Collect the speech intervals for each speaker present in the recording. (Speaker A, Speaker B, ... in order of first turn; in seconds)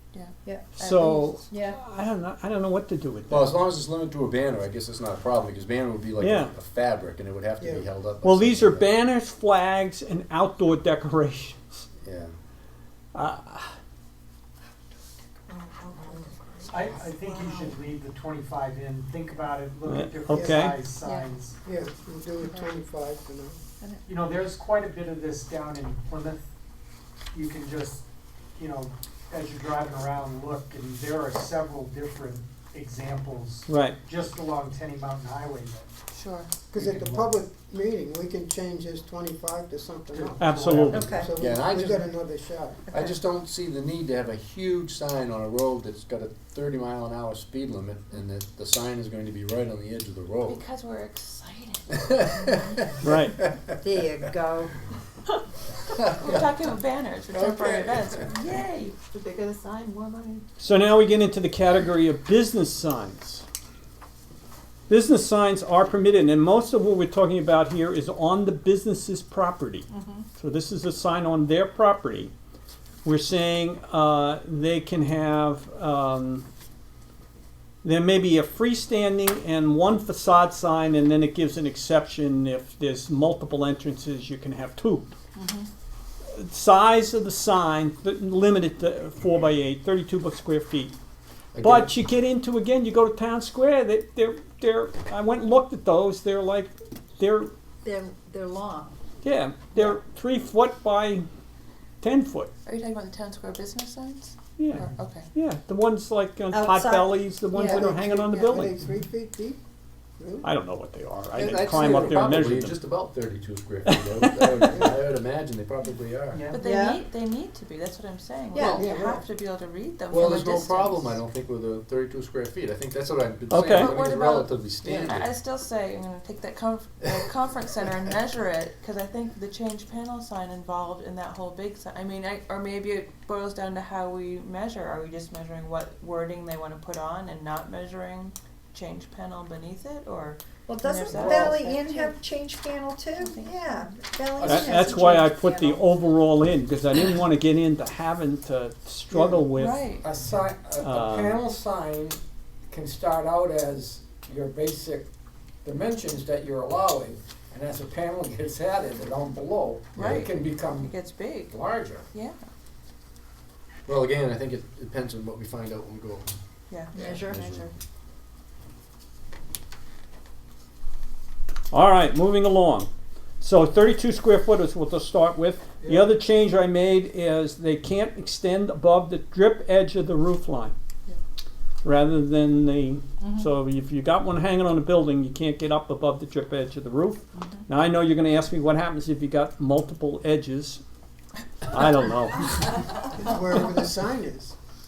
Speaker A: 0.1-1.4, 21.0-21.3, 22.4-22.7, 36.1-36.5, 50.5-52.6, 56.1-60.5, 69.9-70.3, 85.3-85.7, 102.7-105.3, 116.5-121.2, 123.7-142.2, 143.2-144.0, 149.5-150.1, 159.9-161.6, 162.1-162.4, 166.7-167.7, 187.3-187.6
Speaker B: 0.4-1.8, 15.5-17.7, 40.9-41.3, 53.8-54.7, 97.8-99.0, 106.5-107.9, 116.5-117.0, 118.5-118.8, 140.7-145.8, 166.9-167.5
Speaker C: 0.8-3.6, 6.2-6.5, 8.2-11.8, 13.1-13.8, 19.9-20.8, 33.7-34.0, 40.4-41.1, 53.0-53.4, 60.6-63.5, 64.9-72.3, 73.0-76.5, 77.8-85.1, 86.3-91.0, 91.6-97.5, 99.2-101.3, 102.0-102.5, 104.6-108.8, 110.4-112.8, 113.9-114.9, 123.5-124.0, 144.4-149.8, 150.8-151.4, 171.7-172.9, 173.4-180.8, 181.8-190.8, 191.7-192.6
Speaker D: 3.3-8.9, 12.0-12.3, 41.0-42.1, 42.9-50.6, 52.1-53.6, 56.2-56.5, 57.4-58.2, 91.5-91.9, 111.3-116.5, 120.1-125.3, 144.4-144.8, 160.0-160.3, 163.9-166.3, 167.0-167.7
Speaker E: 16.7-21.6, 24.1-26.4, 27.3-28.1, 28.6-35.9, 36.8-37.4, 40.1-41.2, 116.3-116.6
Speaker F: 20.3-20.7, 21.6-23.6, 36.7-40.4, 41.1-42.8, 107.5-109.6, 110.2-110.5, 114.7-115.0, 118.6-119.2, 149.1-149.4, 193.1-194.5
Speaker G: 141.1-141.6, 150.0-152.2, 152.7-155.1, 155.6-162.1